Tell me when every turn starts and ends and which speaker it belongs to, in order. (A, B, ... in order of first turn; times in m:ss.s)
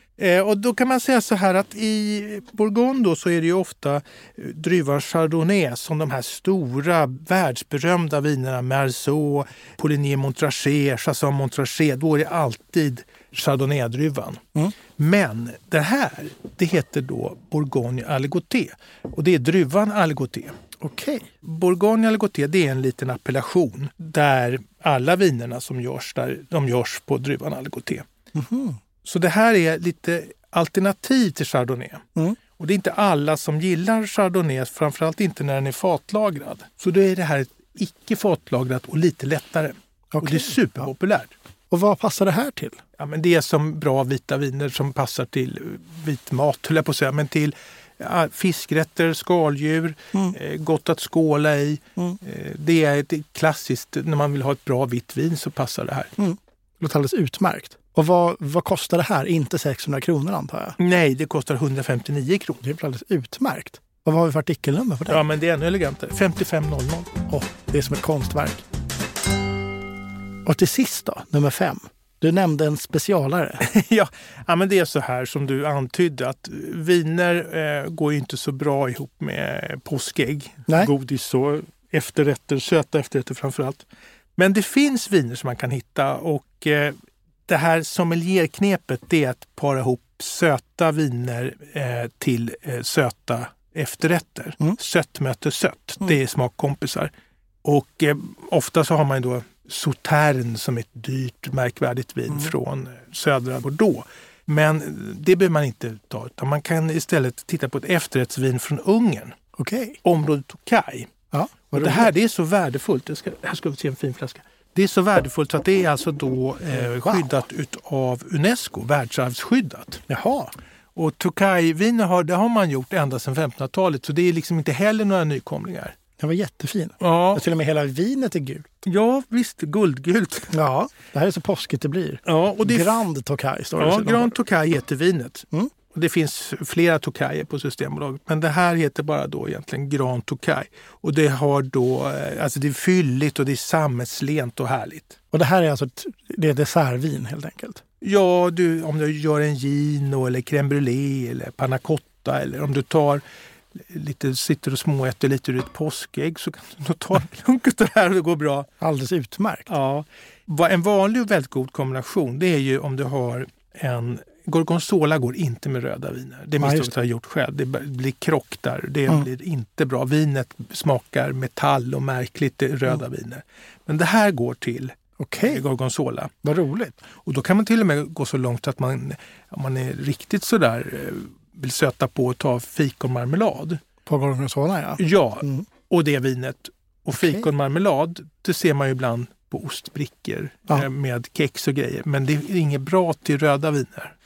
0:00.2-0:14.4 A
0:15.0-0:20.5 A
0:20.8-0:21.3 B
0:21.4-0:28.0 A
0:28.3-0:28.8 B
0:29.0-0:32.0 A
0:32.6-0:41.3 A
0:40.1-0:40.9 B
0:41.7-0:42.8 B
0:43.0-0:56.1 A
0:56.2-1:00.8 B
1:00.8-1:02.6 A
1:02.6-1:05.2 B
1:05.1-1:07.1 A
1:07.3-1:08.6 B
1:10.4-1:13.6 B
1:13.6-1:23.8 A
1:24.4-1:27.0 A
1:27.5-1:37.1 A
1:37.6-1:49.3 A
1:49.6-1:50.0 B
1:50.0-1:51.1 A
1:51.3-1:52.1 B
1:51.7-2:00.0 A
1:56.7-1:57.2 B
2:00.1-2:00.5 B
2:00.9-2:05.9 A
2:06.2-2:08.8 B
2:07.0-2:07.4 A
2:08.8-2:10.5 A
2:10.5-2:14.4 B
2:12.2-2:13.0 A
2:13.8-2:25.2 A
2:25.3-2:27.8 B
2:28.0-2:33.2 A
2:33.8-2:38.7 A
2:38.8-2:39.7 B
2:39.7-2:56.3 A
2:46.6-2:46.9 B
2:55.2-2:55.6 B
2:56.4-2:57.0 B
2:57.2-3:03.8 A
3:04.0-3:05.7 B
3:05.0-3:14.1 A
3:07.2-3:07.5 B